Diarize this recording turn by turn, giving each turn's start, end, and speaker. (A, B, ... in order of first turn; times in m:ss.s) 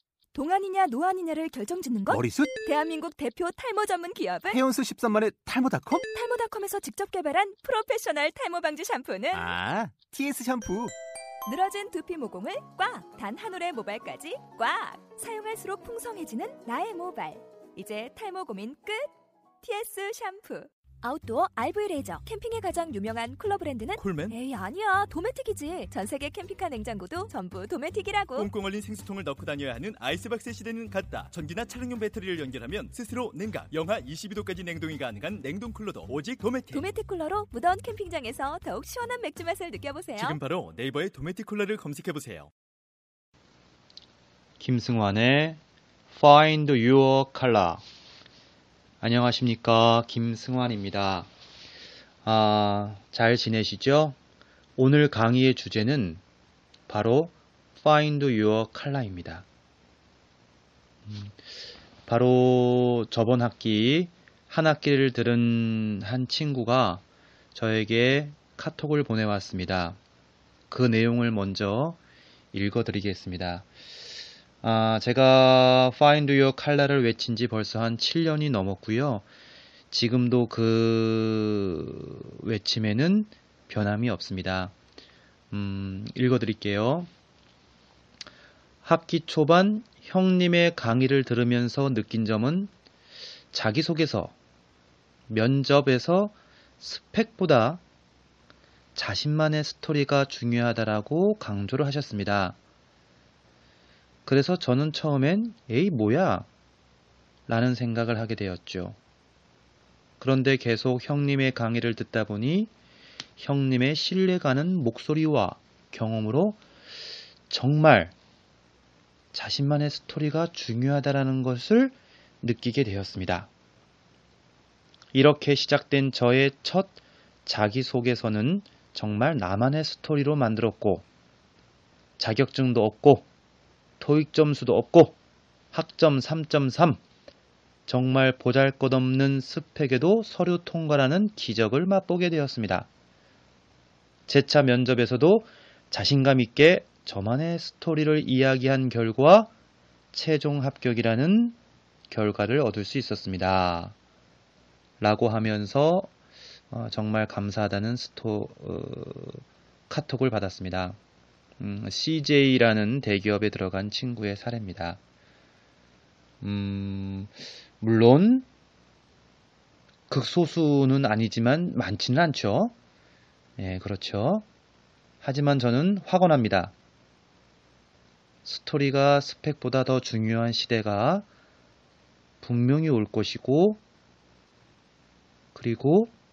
0:00.3-0:04.6 A
0:02.1-0:02.5 B
0:04.5-0:06.0 B
0:05.9-0:09.5 A
0:09.3-0:10.9 B
0:11.4-0:19.1 A
0:19.6-0:28.5 A
0:24.0-0:24.4 C
0:28.4-0:36.9 C
0:36.7-0:40.4 A
0:40.2-0:42.5 C
0:44.6-0:45.6 D
0:46.1-0:47.8 D
0:49.0-0:51.3 D
0:52.2-0:54.2 D
0:54.8-0:56.2 D
0:56.9-0:59.4 D
1:01.1-1:01.4 D
1:02.1-1:07.0 D
1:07.5-1:10.0 D
1:10.7-1:12.0 D
1:12.5-1:13.7 D
1:14.6-1:19.2 D
1:19.9-1:24.7 D
1:25.5-1:27.1 D
1:28.8-1:32.7 D
1:33.5-1:34.3 D
1:35.3-1:37.8 D
1:39.0-1:42.6 D
1:44.2-1:46.5 D
1:47.5-1:49.0 D
1:50.2-1:52.7 D
1:53.4-1:56.6 D
1:57.5-1:58.1 D
1:59.3-2:03.5 D
2:05.1-2:06.9 D
2:07.4-2:11.0 D
2:12.2-2:13.3 D
2:14.0-2:15.2 D
2:15.7-2:17.0 D
2:17.9-2:22.9 D
2:24.3-2:29.5 D
2:30.1-2:31.6 D
2:32.1-2:33.9 D
2:35.0-2:36.1 D
2:36.7-2:41.0 D
2:41.6-2:45.0 D
2:46.4-2:48.4 D
2:50.1-2:52.7 D
2:53.6-2:54.4 D
2:55.2-2:56.7 D
2:58.4-3:01.2 D
3:02.4-3:03.8 D
3:05.5-3:06.1 D